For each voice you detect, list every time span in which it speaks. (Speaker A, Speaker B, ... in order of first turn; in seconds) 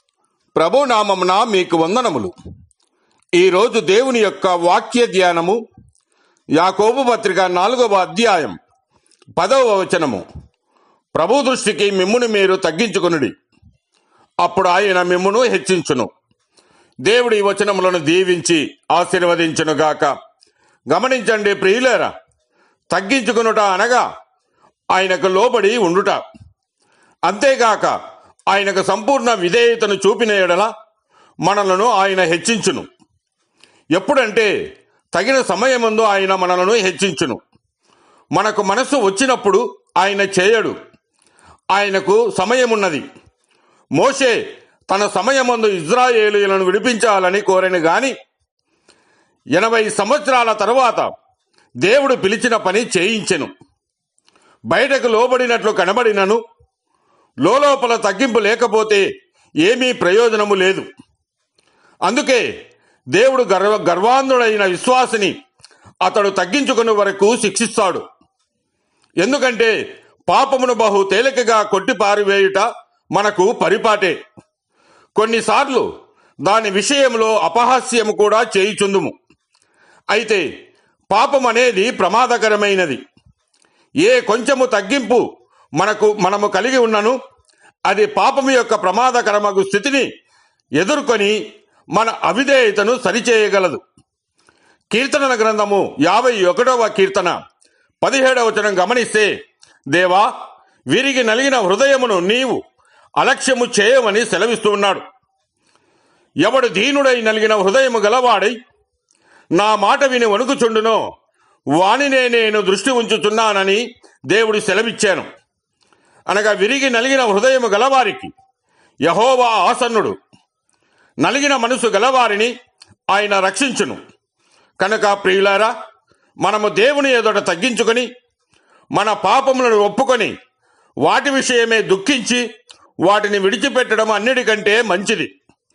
Speaker A: 0.5-2.3, 3.4-5.6, 6.5-8.6, 9.4-10.2, 11.1-13.3, 14.4-16.1, 17.0-20.1, 20.9-22.1, 22.9-24.1, 24.9-26.2, 27.2-28.0, 28.5-30.7, 31.4-32.9, 33.9-34.5, 35.1-37.4, 38.3-40.8, 41.7-43.0, 44.0-44.4, 44.9-48.1, 49.5-51.1, 51.8-53.5, 54.7-56.4, 57.4-59.1, 59.6-60.9, 62.0-62.5, 63.1-65.3, 66.0-68.0, 69.2-69.7, 70.3-74.2, 75.2-75.9, 76.4-79.2, 80.1-80.4, 81.1-83.0, 84.0-85.2, 85.8-87.2, 87.8-90.1, 90.8-91.4, 91.9-93.8, 94.9-97.4, 98.0-99.3, 99.9-100.3, 100.9-102.6, 103.2-105.0, 106.4-108.6, 109.5-111.0, 111.7-115.3, 116.3-118.3, 119.0-120.2, 121.2-122.5, 123.1-124.0, 124.8-125.7, 126.4-128.1, 128.9-130.3, 131.0-132.4, 133.1-135.3